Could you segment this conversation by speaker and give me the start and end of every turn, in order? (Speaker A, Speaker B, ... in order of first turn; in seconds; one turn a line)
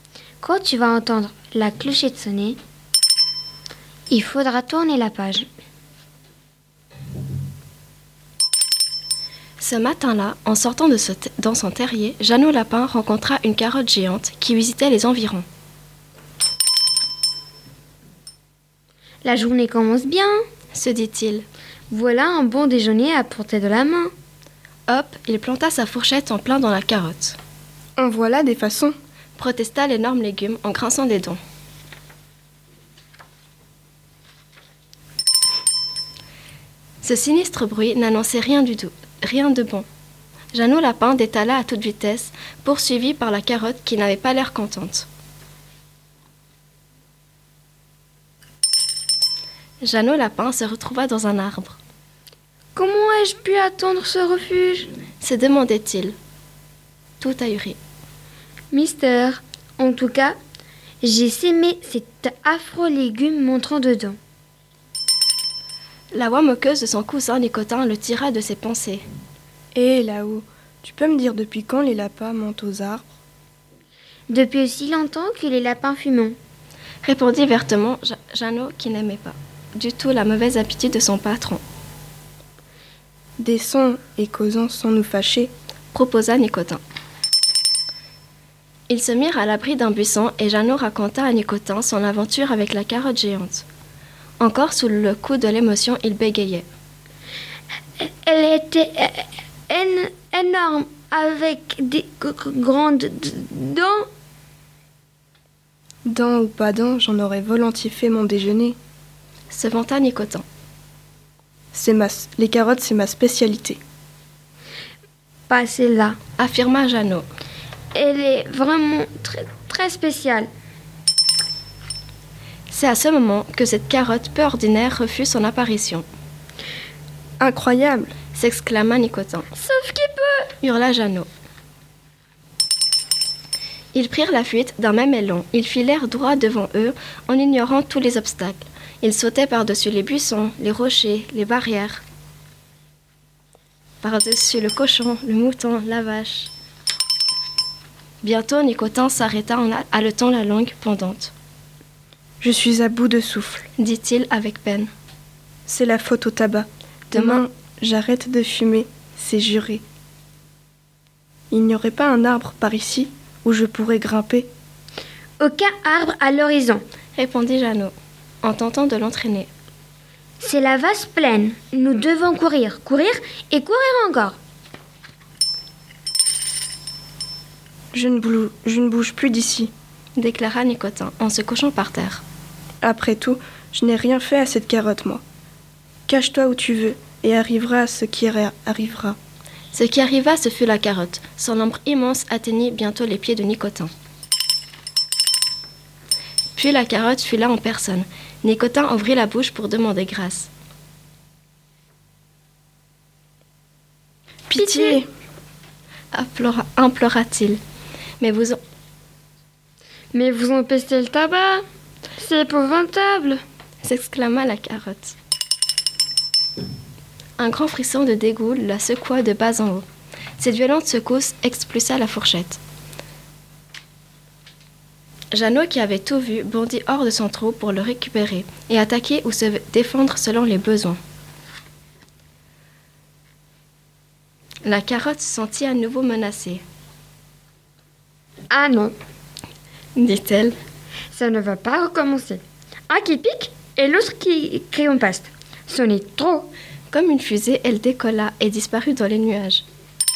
Speaker A: 0.4-2.6
Speaker A: 4.1-5.5
Speaker B: 9.6-15.5
Speaker A: 19.2-20.4
Speaker B: 20.7-21.5
Speaker A: 21.9-24.1
Speaker B: 24.9-27.4
Speaker C: 28.0-28.9
Speaker B: 29.4-31.4
Speaker B: 37.0-39.9
Speaker B: 40.5-45.1
Speaker B: 49.8-51.8
Speaker A: 52.8-54.9
Speaker B: 55.2-56.2
Speaker B: 57.2-57.8
Speaker A: 58.7-60.4
Speaker A: 61.0-64.2
Speaker B: 66.1-69.0
Speaker C: 69.8-73.1
Speaker A: 74.3-76.4
Speaker B: 77.0-81.6
Speaker C: 83.4-85.5
Speaker B: 85.9-86.8
Speaker B: 88.9-93.7
Speaker B: 94.4-96.7
Speaker A: 98.0-104.1
Speaker C: 106.1-108.8
Speaker B: 109.5-110.5
Speaker C: 111.7-113.8
Speaker A: 115.5-116.2
Speaker B: 116.4-117.2
Speaker A: 117.9-120.5
Speaker B: 122.7-126.1
Speaker C: 127.4-128.1
Speaker B: 128.3-129.5
Speaker A: 129.6-130.5
Speaker B: 130.6-131.3
Speaker B: 133.9-142.0
Speaker B: 144.0-146.5
Speaker B: 148.2-151.3
Speaker C: 152.4-153.7
Speaker B: 153.8-154.9
Speaker C: 155.7-159.8
Speaker B: 157.1-157.4
Speaker C: 161.5-164.5
Speaker A: 165.4-166.8
Speaker B: 167.2-169.5
Speaker A: 170.4-174.4
Speaker C: 177.9-179.7
Speaker B: 180.2-182.2
Speaker C: 182.8-185.2
Speaker C: 186.1-189.2
Speaker B: 189.7-193.9
Speaker B: 196.6-200.5
Speaker C: 204.5-205.1
Speaker A: 204.6-205.0
Speaker B: 206.1-207.6
Speaker B: 208.2-208.6
Speaker A: 210.1-211.6
Speaker A: 212.2-213.4
Speaker B: 213.8-215.2
Speaker B: 217.4-219.8
Speaker B: 220.4-222.6
Speaker B: 225.3-231.0
Speaker B: 234.6-236.6
Speaker A: 238.5-238.9
Speaker B: 240.0-240.6
Speaker A: 241.1-246.5
Speaker B: 246.9-249.7